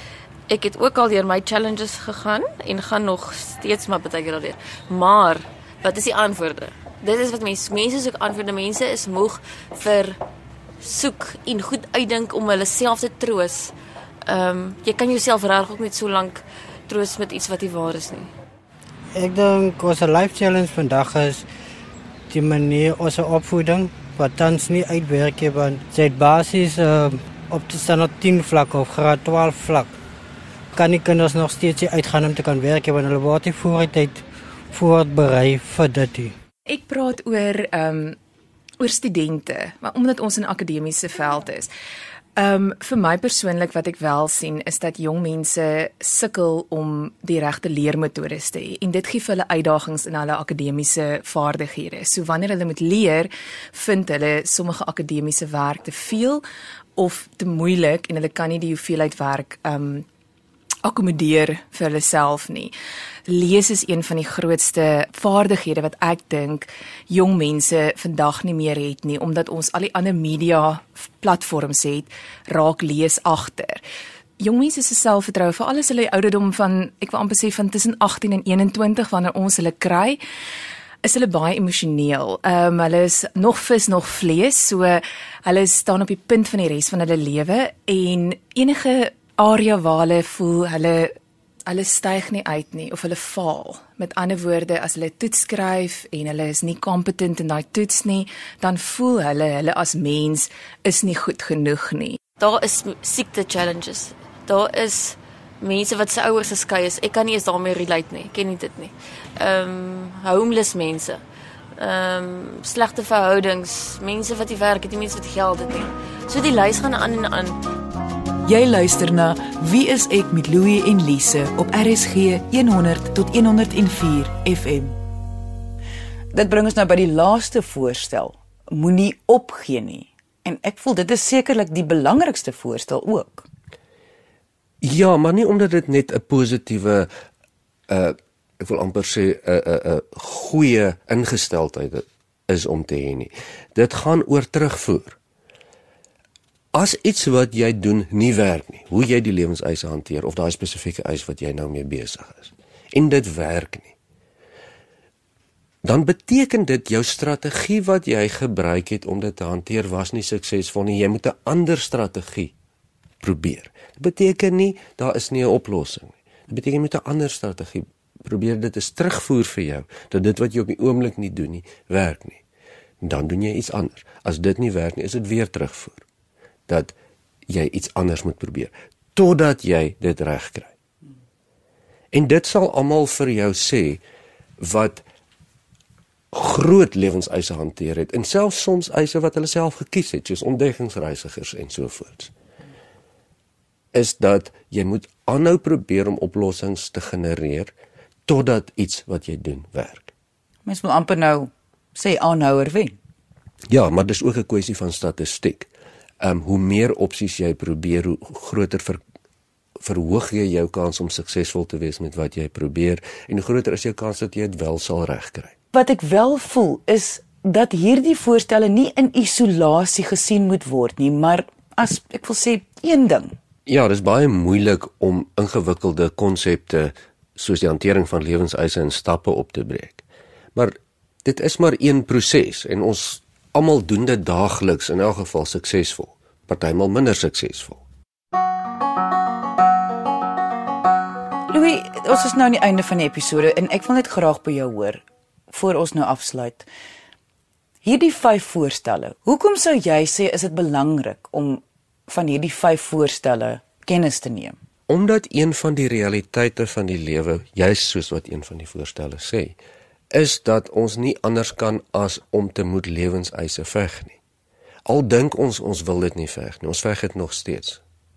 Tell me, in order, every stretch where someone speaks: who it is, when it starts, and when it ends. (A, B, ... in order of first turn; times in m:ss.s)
0:00.5-0:10.2 A
0:10.8-0:13.7 A
0:14.3-0:18.3 A
0:19.1-0:21.4 B
0:22.3-0:29.9 B
0:30.7-0:36.3 B
0:36.7-0:38.2 C
0:38.8-0:41.7 C
0:42.4-0:56.4 C
0:57.0-1:00.0 C
1:00.8-1:02.7 C
1:03.3-1:13.8 C
1:14.4-1:20.2 C
1:21.0-1:31.1 C
1:31.7-1:42.2 C
1:42.4-1:51.2 A
1:51.8-1:57.6 A
1:58.4-2:05.0 D
2:06.3-2:13.5 D
2:14.8-2:17.1 E
2:17.9-2:25.2 E
2:26.7-2:33.9 E
2:35.8-2:42.5 E
2:43.2-2:52.4 E
2:53.0-2:56.0 E
2:56.7-2:56.9 E
2:57.5-3:00.7 E
3:02.1-3:04.0 E
3:04.6-3:05.0 E
3:06.3-3:12.3 E
3:13.9-3:17.7 E
3:18.3-3:20.1 E
3:20.6-3:23.0 D
3:23.7-3:25.7 E
3:26.2-3:29.0 E
3:29.8-3:35.5 E
3:35.7-3:43.4 D
3:43.6-3:50.0 E
3:50.5-3:57.8 E
4:01.5-4:06.7 D
4:07.8-4:14.6 D
4:14.9-4:19.6 E
4:20.1-4:24.2 E
4:24.8-4:27.8 E